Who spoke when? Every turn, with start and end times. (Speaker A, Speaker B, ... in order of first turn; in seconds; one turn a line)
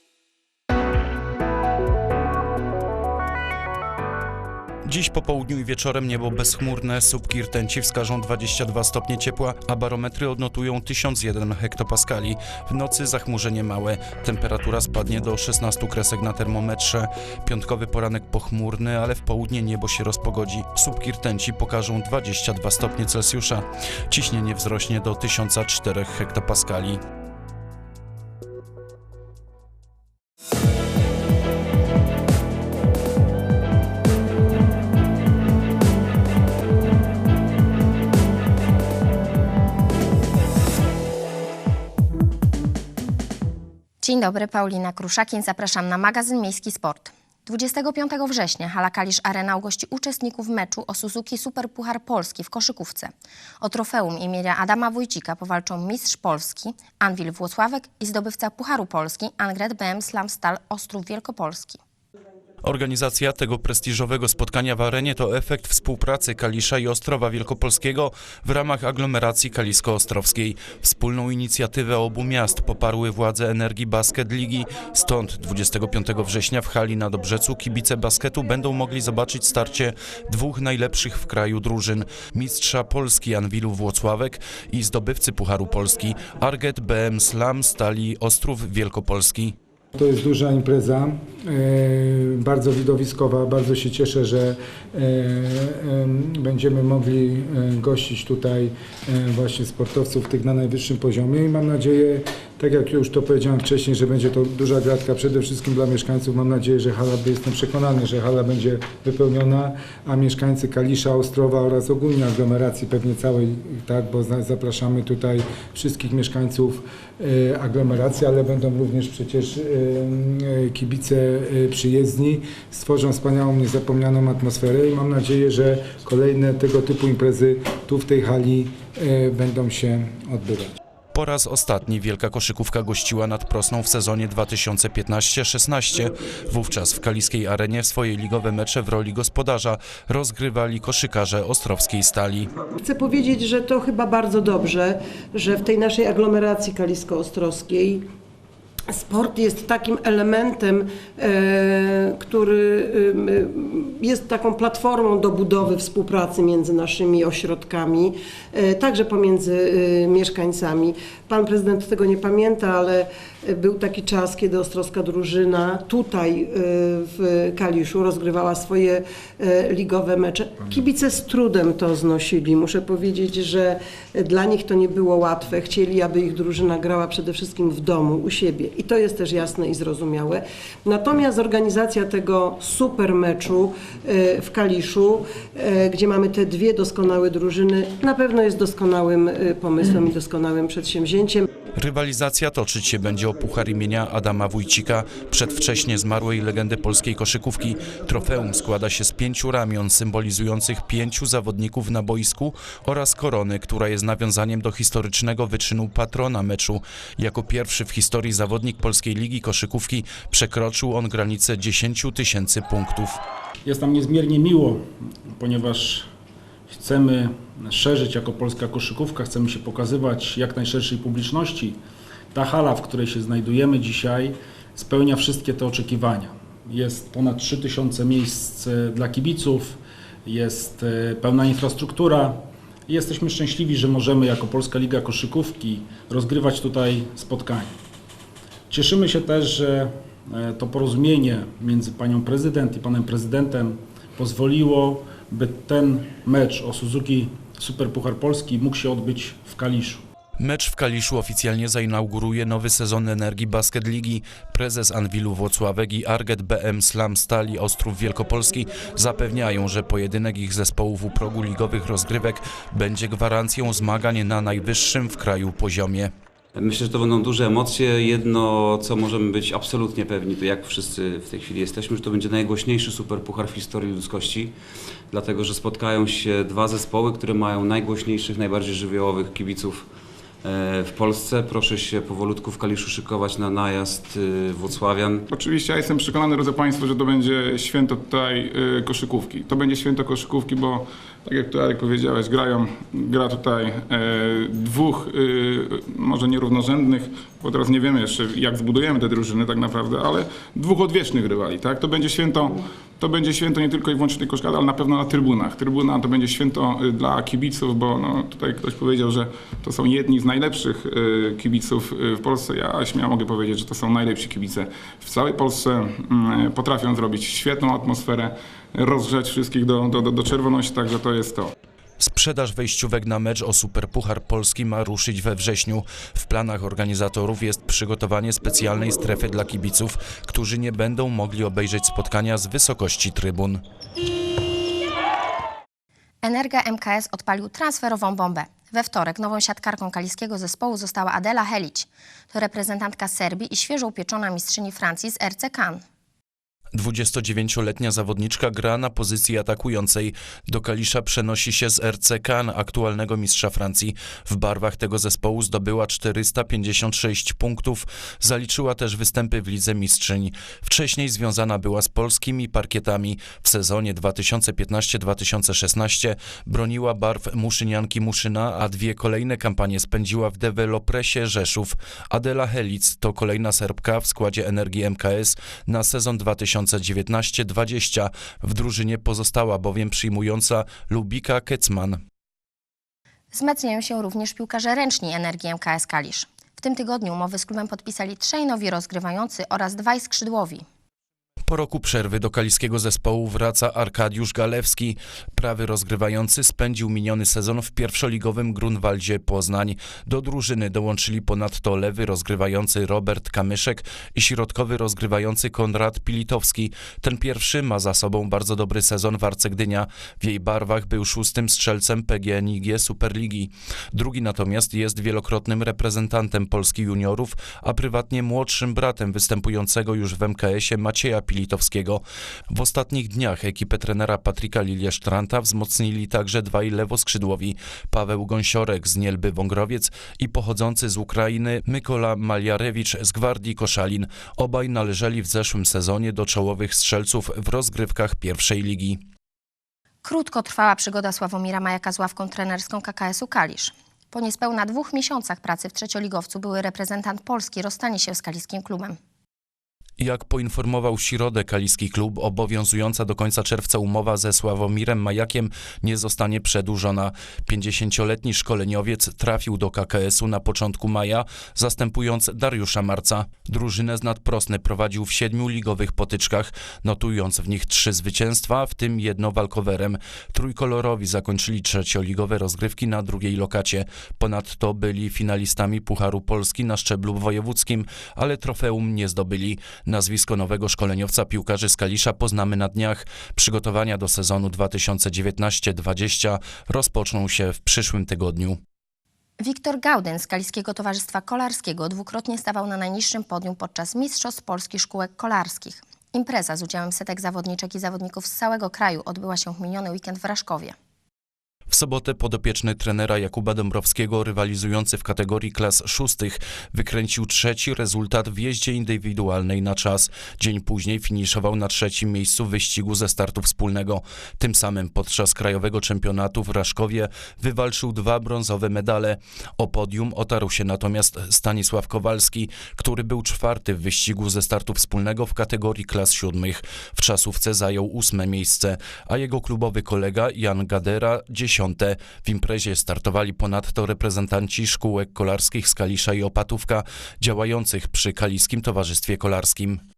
Speaker A: 4.8-27.0
Speaker B: 44.0-61.8
Speaker A: 62.6-89.5
Speaker C: 89.9-130.8
Speaker A: 131.1-142.5
Speaker D: 142.8-148.1
Speaker D: 148.9-191.4
Speaker A: 191.8-213.2
Speaker E: 213.6-216.1
Speaker E: 216.7-221.8
Speaker E: 222.3-237.7
Speaker E: 238.7-250.0
Speaker A: 250.4-266.1
Speaker F: 266.5-274.5
Speaker F: 275.1-279.9
Speaker F: 280.4-285.2
Speaker G: 285.3-321.5
Speaker A: 322.0-333.6
Speaker B: 336.2-345.8
Speaker A: 346.7-382.0
Speaker B: 383.3-390.6
Speaker A: 391.4-439.0
Speaker B: 440.0-449.0
Speaker A: 450.0-488.6
Speaker B: 489.4-500.7
Speaker A: 501.7-539.8